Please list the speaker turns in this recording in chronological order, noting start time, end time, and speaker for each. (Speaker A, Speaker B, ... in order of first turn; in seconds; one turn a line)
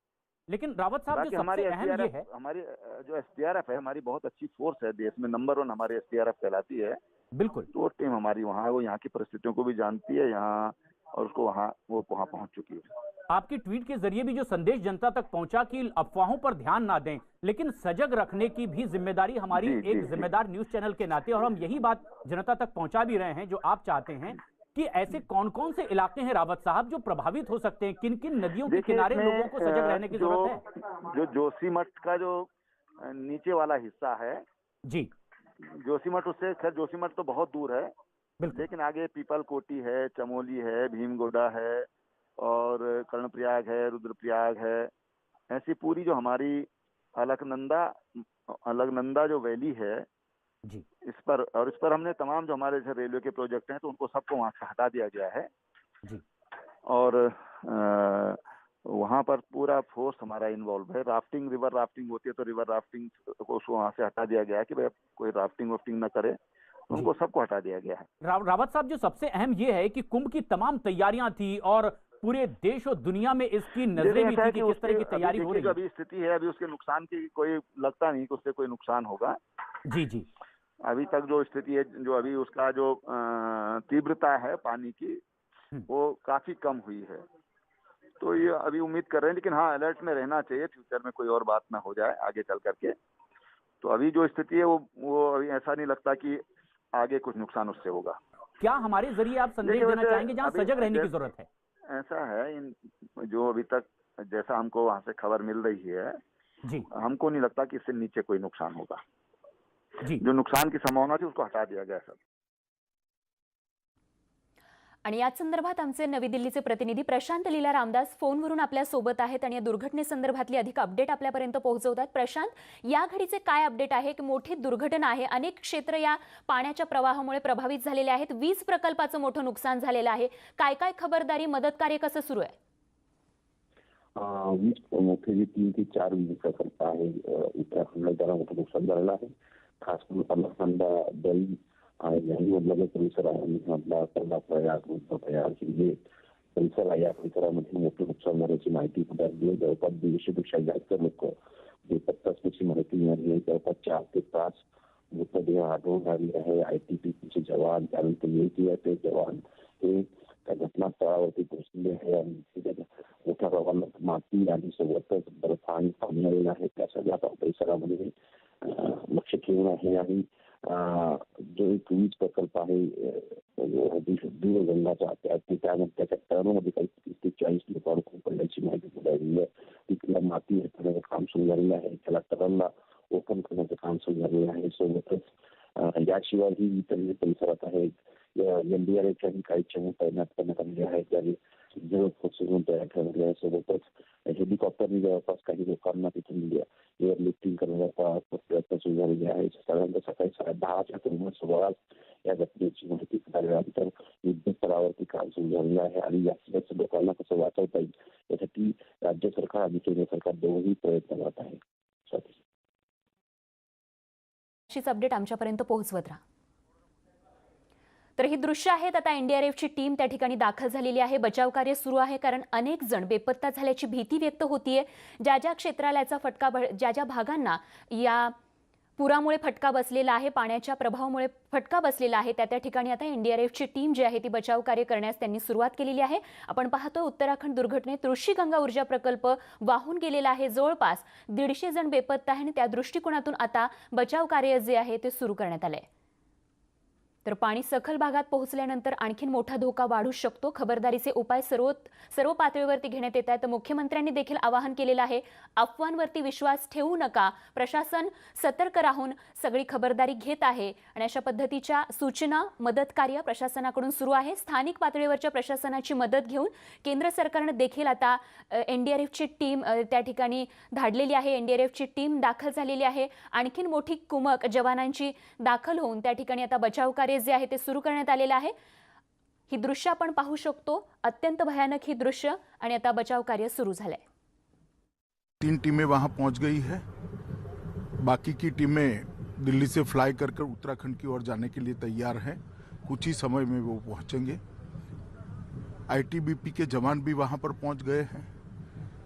Speaker A: 0.5-2.2
Speaker B: 1.1-7.0
Speaker A: 7.3-7.7
Speaker B: 7.7-12.9
Speaker A: 13.3-30.6
Speaker B: 19.5-20.3
Speaker B: 28.7-32.5
Speaker B: 33.0-34.4
Speaker B: 35.6-37.9
Speaker B: 38.5-41.9
Speaker B: 42.4-44.9
Speaker B: 45.5-48.0
Speaker B: 48.5-50.1
Speaker B: 51.0-55.5
Speaker B: 56.9-66.4
Speaker B: 66.9-68.1
Speaker A: 68.2-75.7
Speaker B: 74.0-79.4
Speaker A: 79.9-80.3
Speaker B: 80.8-85.2
Speaker B: 85.9-87.2
Speaker B: 88.2-93.0
Speaker B: 93.8-96.4
Speaker B: 96.9-98.2
Speaker A: 98.6-101.5
Speaker B: 99.6-101.1
Speaker B: 101.9-106.2
Speaker B: 106.9-109.0
Speaker B: 110.1-112.2
Speaker C: 115.0-132.5
Speaker D: 134.2-146.0
Speaker D: 146.6-151.3
Speaker D: 151.9-154.6
Speaker D: 155.1-212.4
Speaker C: 214.7-216.2
Speaker C: 218.2-228.3
Speaker C: 229.0-245.8
Speaker C: 247.2-278.5
Speaker C: 279.5-284.0
Speaker E: 285.4-286.8
Speaker E: 288.0-294.4
Speaker E: 295.9-298.3